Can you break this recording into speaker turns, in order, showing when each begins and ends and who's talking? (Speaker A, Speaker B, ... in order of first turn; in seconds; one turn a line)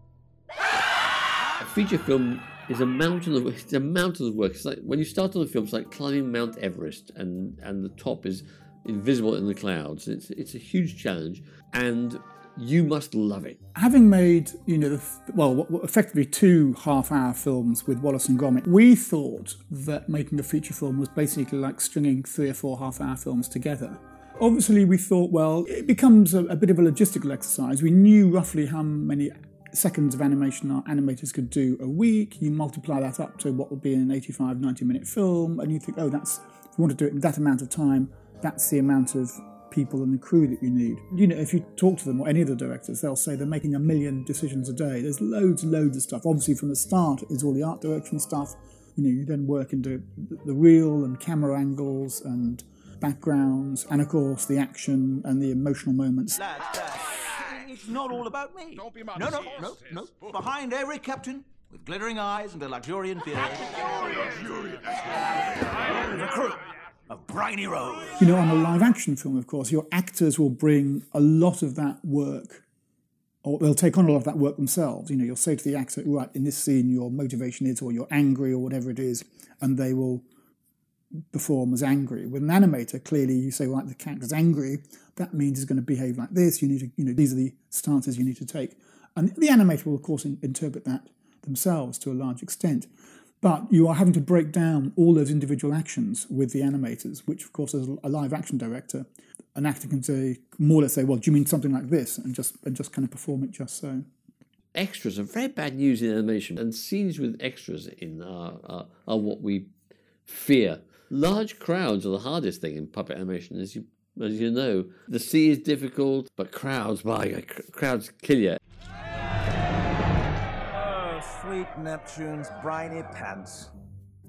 Speaker A: 1.6-13.6
Speaker B: 13.8-56.4
Speaker C: 56.4-63.7
Speaker C: 66.1-66.5
Speaker C: 67.1-68.0
Speaker B: 68.2-72.6
Speaker B: 73.4-80.2
Speaker B: 81.3-92.9
Speaker B: 93.4-104.1
Speaker A: 104.7-109.7
Speaker A: 110.3-118.6
Speaker C: 120.9-123.7